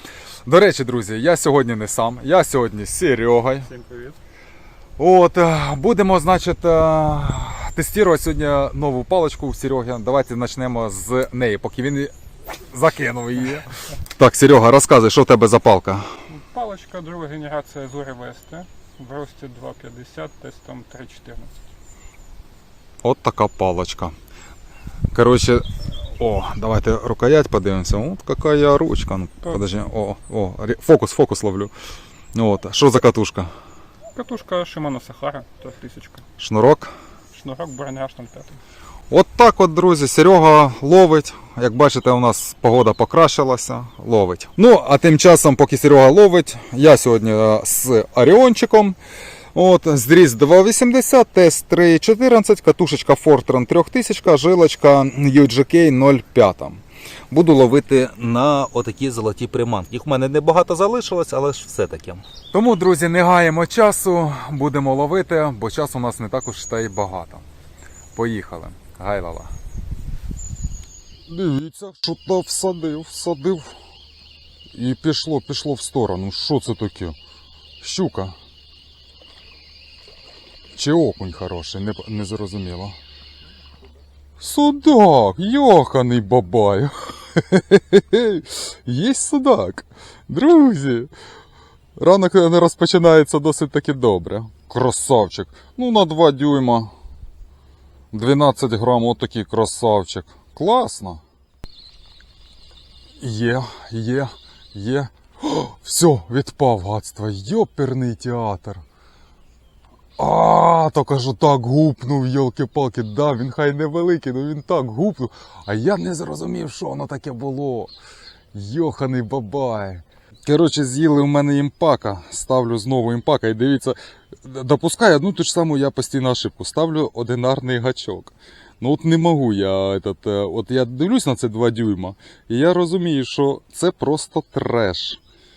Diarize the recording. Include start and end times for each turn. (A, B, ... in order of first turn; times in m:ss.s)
0:00.5-0:03.7 A
0:03.8-0:04.2 B
0:05.0-0:16.1 A
0:16.3-0:21.6 B
0:23.0-0:24.1 A
0:25.1-0:31.7 A
0:32.3-0:33.5 A
0:34.2-0:36.2 B
0:36.4-0:36.9 A
0:37.3-0:38.6 B
0:39.1-0:49.0 A
0:49.5-0:58.0 A
0:58.0-1:02.2 C
1:02.5-1:07.4 A
1:08.2-1:09.5 A
1:11.3-1:13.8 A
1:14.7-1:17.2 A
1:17.8-1:18.4 A
1:20.7-1:23.0 A
1:24.4-1:31.1 A
1:32.0-1:36.9 A
1:38.1-1:41.2 A
1:43.2-1:48.8 A
1:50.2-1:57.9 A
1:58.5-2:15.2 A